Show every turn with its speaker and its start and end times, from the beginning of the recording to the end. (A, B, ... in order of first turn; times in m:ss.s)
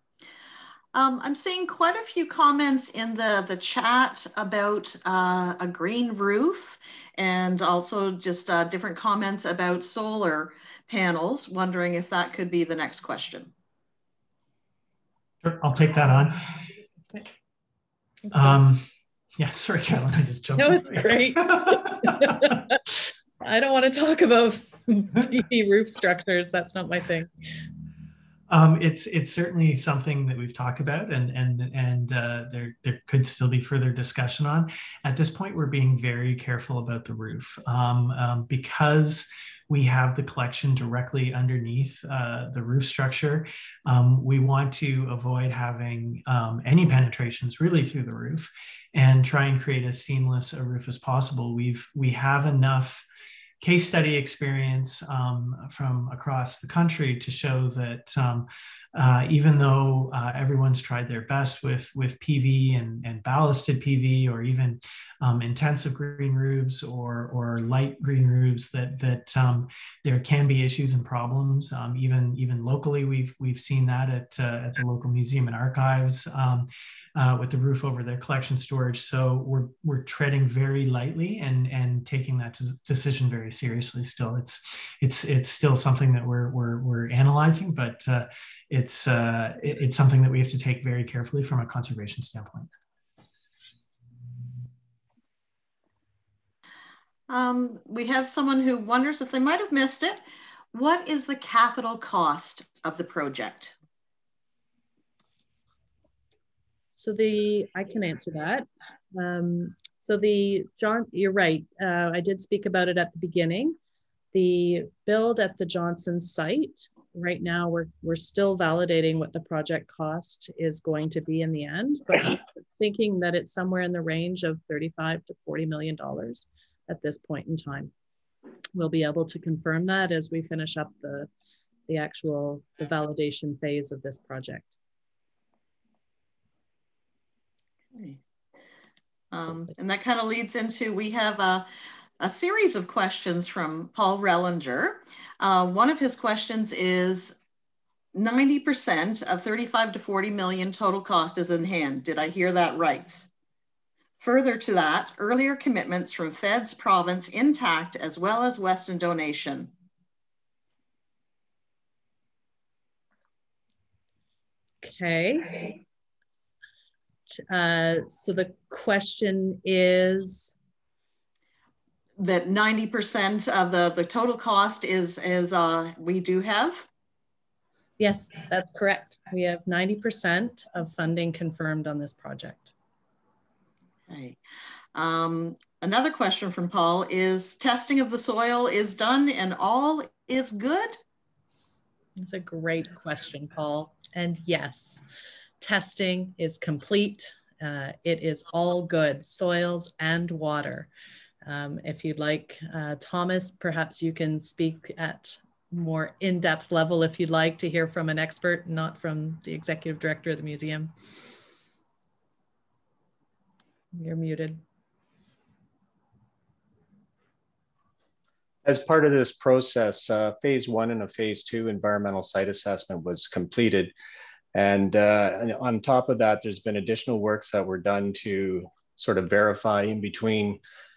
0:00.9-0:13.5 A
0:15.4-0:16.6 B
0:18.3-0:18.6 C
0:18.3-0:18.8 B
0:19.4-0:22.6 B
0:20.6-0:22.8 C
0:23.4-0:27.3 C
0:28.5-0:53.1 B
0:53.6-1:32.7 B
1:37.3-1:43.7 A
1:47.0-1:53.8 C
1:54.3-2:07.9 C
2:08.7-2:11.3 C
2:11.9-2:14.7 C
2:17.9-2:18.2 A
2:19.3-2:21.6 A
2:22.2-2:27.4 A
2:28.1-2:33.3 A
2:34.2-2:39.7 A
2:44.8-2:45.7 C
2:47.5-2:50.6 C
2:52.2-2:56.9 A
2:58.0-3:02.7 C
3:04.1-3:04.4 A
3:04.9-3:11.0 A
3:12.2-3:15.0 C
3:15.6-3:20.9 C
3:21.4-3:30.9 C
3:33.9-3:34.6 C
3:38.6-3:43.9 D
3:44.6-3:50.6 D